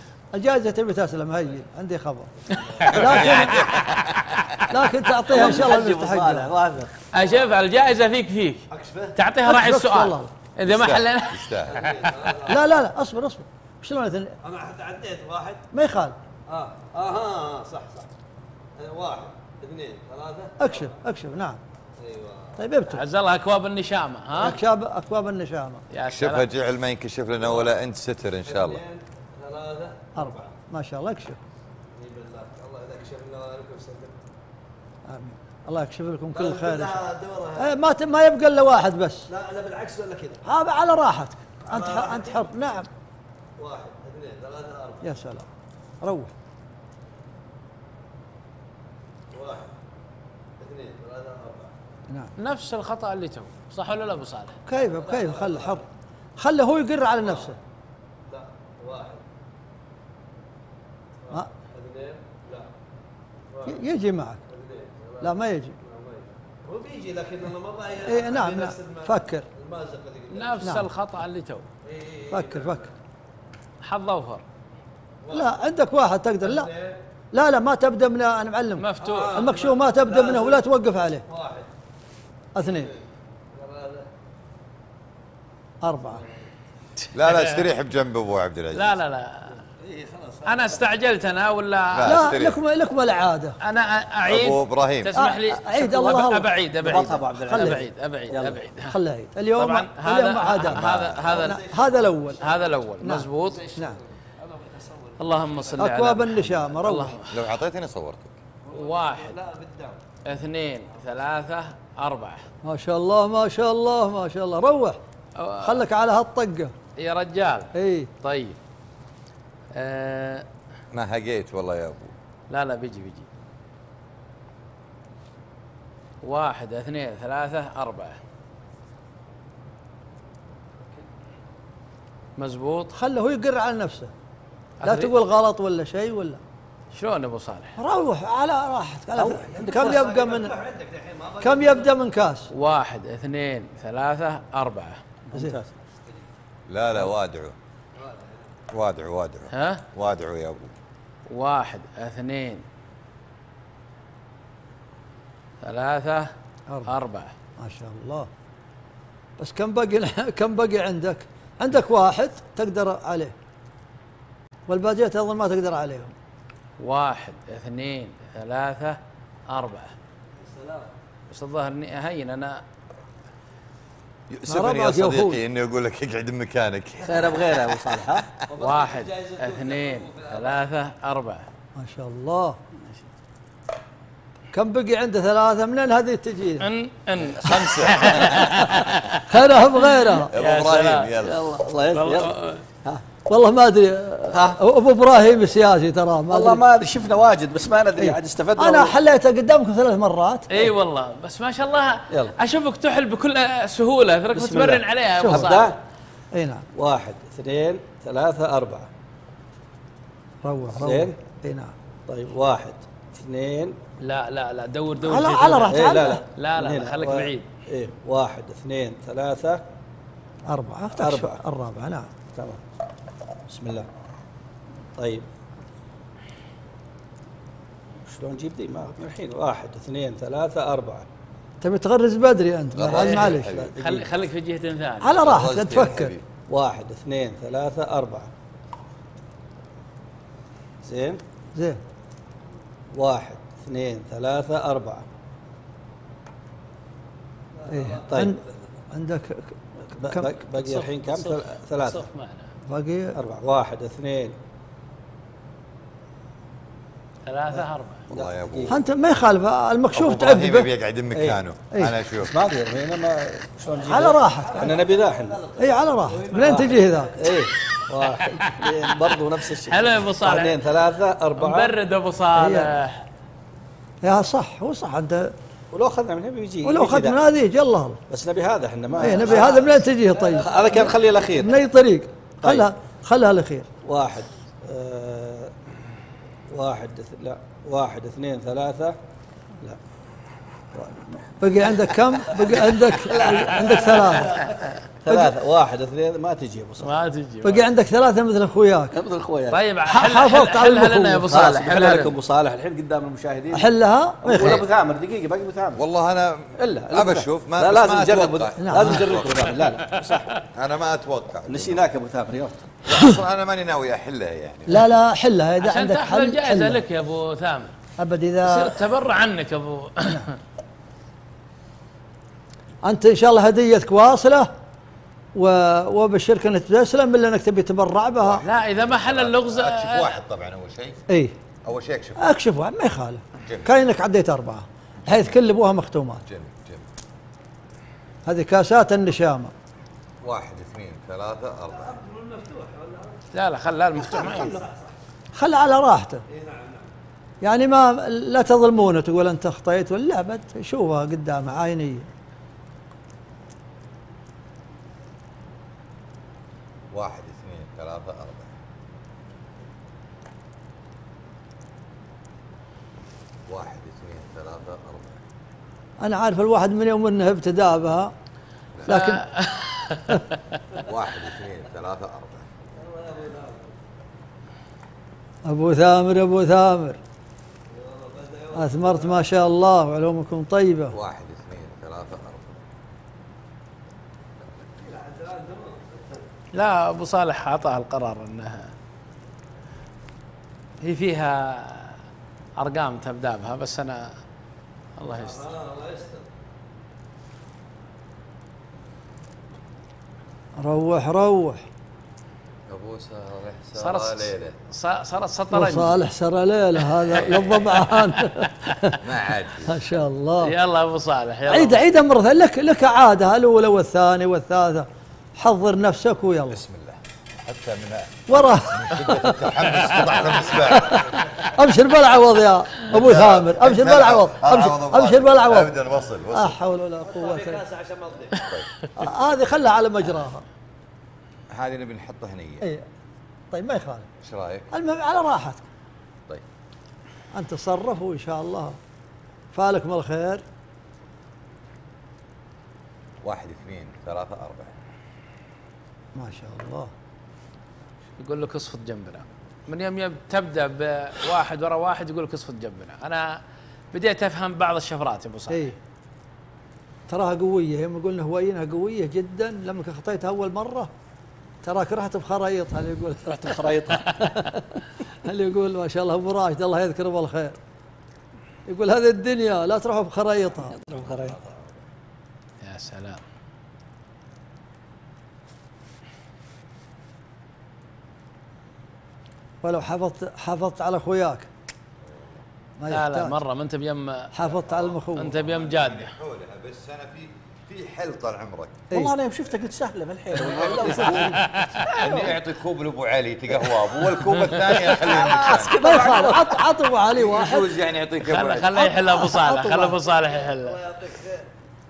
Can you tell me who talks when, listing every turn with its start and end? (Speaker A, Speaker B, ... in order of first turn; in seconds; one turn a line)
Speaker A: 0.3-2.3
Speaker B: 2.5-3.1
Speaker A: 2.9-3.7
Speaker C: 2.9-4.7
Speaker D: 3.1-4.4
Speaker A: 4.7-6.5
Speaker B: 5.2-7.5
Speaker D: 7.1-11.5
Speaker B: 8.7-9.2
Speaker A: 9.4-10.3
Speaker C: 10.6-12.1
Speaker B: 11.7-12.8
Speaker A: 12.4-14.3
Speaker B: 14.4-15.6
Speaker A: 15.7-16.2
Speaker B: 16.5-18.1
Speaker B: 18.8-20.9
Speaker A: 20.6-21.6
Speaker B: 22.0-22.6
Speaker A: 22.6-23.0
Speaker D: 22.9-24.6
Speaker A: 24.4-25.8
Speaker D: 25.9-26.5
Speaker C: 26.1-28.8
Speaker B: 27.4-27.7
Speaker B: 28.4-30.5
Speaker A: 30.1-31.4
Speaker B: 31.9-34.1
Speaker A: 35.0-37.0
Speaker B: 36.3-37.8
Speaker A: 37.6-39.3
Speaker B: 39.3-40.4
Speaker A: 40.4-42.9
Speaker B: 41.6-42.5
Speaker B: 43.6-45.2
Speaker A: 45.0-45.5
Speaker A: 46.0-46.3
Speaker B: 49.3-49.7
Speaker B: 50.6-51.7
Speaker D: 52.4-54.6
Speaker A: 54.7-55.8
Speaker B: 54.8-55.8
Speaker A: 56.4-57.6
Speaker B: 57.2-57.5
Speaker B: 58.3-59.2
Speaker B: 61.2-62.7
Speaker B: 63.5-63.8
Speaker A: 63.6-64.4
Speaker B: 64.5-70.7
Speaker A: 65.2-65.8
Speaker A: 68.1-69.5
Speaker D: 70.3-71.7
Speaker A: 70.6-70.9
Speaker B: 71.8-72.9
Speaker A: 72.3-72.9
Speaker D: 73.8-74.4
Speaker B: 75.2-75.7
Speaker A: 75.3-76.7
Speaker B: 76.4-77.0
Speaker A: 77.3-81.2
Speaker D: 78.8-79.5
Speaker B: 79.0-80.6
Speaker B: 81.3-81.7
Speaker A: 82.5-82.9
Speaker B: 83.5-84.1
Speaker A: 85.8-86.2
Speaker B: 86.1-86.5
Speaker D: 87.1-87.6
Speaker C: 87.1-89.0
Speaker D: 88.7-89.6
Speaker B: 89.8-90.8
Speaker D: 90.4-92.3
Speaker C: 91.9-92.6
Speaker A: 92.0-93.5
Speaker D: 93.6-99.0
Speaker C: 94.2-95.1
Speaker A: 95.2-97.8
Speaker E: 95.8-96.2
Speaker E: 96.8-98.6
Speaker A: 98.8-100.8
Speaker D: 99.6-101.6
Speaker C: 100.6-101.4
Speaker B: 101.2-102.8
Speaker A: 101.4-102.4
Speaker D: 102.4-103.6
Speaker A: 103.0-104.0
Speaker B: 103.4-105.6
Speaker D: 105.2-107.5
Speaker A: 105.8-107.2
Speaker C: 107.3-108.3
Speaker B: 108.7-110.0
Speaker D: 108.7-109.3
Speaker D: 110.2-112.5
Speaker A: 112.6-115.0
Speaker D: 115.4-115.8
Speaker A: 115.6-116.7
Speaker D: 117.0-118.6
Speaker A: 117.7-118.1
Speaker D: 119.7-120.5
Speaker C: 120.9-122.1
Speaker D: 122.5-123.3
Speaker D: 126.2-128.2
Speaker D: 132.4-132.9
Speaker A: 132.9-134.1
Speaker D: 134.8-135.1
Speaker A: 134.8-136.4
Speaker D: 136.9-137.8
Speaker A: 137.8-140.5
Speaker E: 139.1-140.1
Speaker B: 139.6-141.9
Speaker A: 141.4-142.5
Speaker D: 142.5-145.0
Speaker E: 145.3-145.7
Speaker A: 145.3-145.6
Speaker C: 146.7-147.5
Speaker B: 147.9-148.5
Speaker C: 148.7-150.7
Speaker D: 149.5-149.8
Speaker D: 151.3-152.6
Speaker D: 155.6-156.3
Speaker D: 156.8-157.3
Speaker A: 157.6-158.3
Speaker A: 159.4-163.3
Speaker A: 164.7-166.1
Speaker D: 166.8-169.9
Speaker B: 170.4-170.9
Speaker D: 171.3-172.6
Speaker C: 174.3-178.0
Speaker A: 174.5-175.4
Speaker E: 177.0-178.3
Speaker B: 178.5-180.6
Speaker D: 178.6-181.5
Speaker A: 181.8-182.6
Speaker A: 184.5-186.7
Speaker D: 186.6-189.2
Speaker C: 187.2-188.8
Speaker A: 189.3-190.3
Speaker D: 190.2-191.1
Speaker C: 190.3-191.5
Speaker E: 191.2-193.0
Speaker D: 191.9-192.6
Speaker A: 193.2-196.7
Speaker E: 194.3-194.6
Speaker E: 196.3-198.9
Speaker A: 198.0-200.7
Speaker D: 200.5-205.8
Speaker E: 202.1-202.3
Speaker E: 204.3-205.7
Speaker A: 205.2-205.6
Speaker A: 206.3-206.7
Speaker E: 206.7-208.9
Speaker A: 210.4-211.7
Speaker E: 210.7-211.2
Speaker E: 212.1-213.8
Speaker D: 214.0-217.5
Speaker A: 215.0-216.2
Speaker E: 215.7-219.6
Speaker A: 220.5-222.1
Speaker E: 220.9-221.4
Speaker E: 222.3-222.6
Speaker E: 223.5-223.9
Speaker E: 225.0-225.2
Speaker E: 228.0-231.1
Speaker A: 231.6-233.6
Speaker C: 232.7-233.7
Speaker D: 232.9-235.2
Speaker E: 233.5-234.1
Speaker A: 235.0-236.2
Speaker C: 235.2-236.2
Speaker E: 236.5-238.3
Speaker E: 240.8-241.2
Speaker A: 241.5-241.8
Speaker E: 242.9-245.0
Speaker B: 247.5-248.6
Speaker A: 247.7-248.4
Speaker E: 248.1-248.3
Speaker A: 248.9-250.3
Speaker E: 249.9-252.1
Speaker D: 250.5-252.5
Speaker A: 252.7-253.2
Speaker E: 253.1-254.3
Speaker D: 257.2-258.0
Speaker E: 257.5-258.8
Speaker C: 258.1-258.8
Speaker A: 258.7-260.7
Speaker C: 259.9-262.3
Speaker E: 261.1-261.4
Speaker E: 262.2-265.5
Speaker A: 263.8-264.9
Speaker B: 264.4-267.1
Speaker A: 265.6-267.1
Speaker E: 266.4-271.8
Speaker D: 268.1-269.1
Speaker D: 269.6-270.6
Speaker D: 271.4-273.0
Speaker A: 272.4-272.7
Speaker A: 274.0-275.3
Speaker E: 275.7-277.2
Speaker A: 276.6-278.0
Speaker E: 278.1-279.8
Speaker A: 278.9-283.7
Speaker B: 280.1-280.6
Speaker E: 280.4-281.5
Speaker E: 282.4-282.7
Speaker E: 283.8-285.5
Speaker E: 286.5-289.0
Speaker E: 290.7-291.2
Speaker A: 291.4-294.5
Speaker E: 292.6-294.1
Speaker E: 295.0-296.9
Speaker D: 296.8-297.6
Speaker A: 297.4-299.0
Speaker E: 298.9-299.6
Speaker D: 299.5-302.1
Speaker A: 299.9-301.3
Speaker E: 301.3-303.7
Speaker A: 303.5-304.7
Speaker E: 304.2-305.8
Speaker C: 305.8-309.6
Speaker E: 306.6-310.4
Speaker A: 308.6-309.1
Speaker C: 310.5-311.8
Speaker E: 311.5-312.7
Speaker C: 312.8-314.9
Speaker A: 314.7-316.8
Speaker D: 315.6-317.7
Speaker A: 318.0-318.8
Speaker D: 318.4-320.3
Speaker A: 322.8-324.5
Speaker A: 325.3-328.4
Speaker C: 328.2-331.0
Speaker D: 328.4-330.1
Speaker A: 331.1-331.3
Speaker C: 331.6-332.3
Speaker A: 332.2-336.2
Speaker C: 333.4-333.7
Speaker C: 335.1-335.3
Speaker C: 336.2-336.8
Speaker A: 338.2-339.5
Speaker C: 340.2-342.0
Speaker B: 341.7-343.2
Speaker D: 343.3-344.6
Speaker E: 344.1-344.6
Speaker B: 344.1-344.9
Speaker A: 345.3-346.2
Speaker B: 346.3-346.9
Speaker A: 347.4-352.1
Speaker C: 356.9-358.5
Speaker C: 363.5-365.2
Speaker A: 366.0-368.1
Speaker A: 368.9-369.2
Speaker D: 368.9-370.2
Speaker C: 370.8-372.5
Speaker B: 372.7-373.8
Speaker A: 375.4-377.0
Speaker B: 377.7-379.2
Speaker A: 378.5-380.9
Speaker C: 380.9-382.6
Speaker B: 384.8-386.2
Speaker D: 386.5-388.7
Speaker D: 390.8-392.0
Speaker D: 392.6-394.1
Speaker D: 395.0-395.5
Speaker B: 395.1-396.3
Speaker A: 400.6-401.6
Speaker C: 402.7-404.6
Speaker D: 403.8-406.1
Speaker A: 405.5-409.0
Speaker D: 407.1-408.9
Speaker C: 409.0-409.8
Speaker A: 409.7-410.5
Speaker D: 410.4-411.8
Speaker A: 411.5-416.6
Speaker C: 416.5-421.3
Speaker A: 418.3-425.7
Speaker C: 422.8-426.6
Speaker A: 426.3-427.6
Speaker B: 427.0-428.5
Speaker A: 428.9-430.4
Speaker C: 431.5-432.7
Speaker A: 432.6-432.9
Speaker A: 433.5-434.1
Speaker C: 434.2-434.7
Speaker A: 434.7-435.6
Speaker A: 437.3-438.8
Speaker A: 439.5-440.4
Speaker C: 443.2-444.8
Speaker A: 446.1-446.9
Speaker D: 448.2-453.4
Speaker D: 453.9-455.7
Speaker A: 457.1-460.9
Speaker A: 461.6-467.6
Speaker E: 463.2-464.2
Speaker A: 468.6-470.8
Speaker E: 470.7-471.4
Speaker C: 471.2-471.7
Speaker D: 472.6-473.2
Speaker A: 479.6-481.5
Speaker A: 482.8-483.4
Speaker D: 482.9-484.3
Speaker A: 484.3-485.3
Speaker C: 484.5-488.8
Speaker D: 485.1-486.1
Speaker E: 488.9-492.3
Speaker C: 490.4-491.4
Speaker D: 491.0-492.0
Speaker C: 492.0-495.8
Speaker D: 494.2-494.6
Speaker E: 494.8-496.7
Speaker A: 495.8-497.7
Speaker C: 497.1-498.9
Speaker D: 498.2-500.8
Speaker A: 499.0-499.8
Speaker E: 499.3-499.9
Speaker B: 500.3-501.4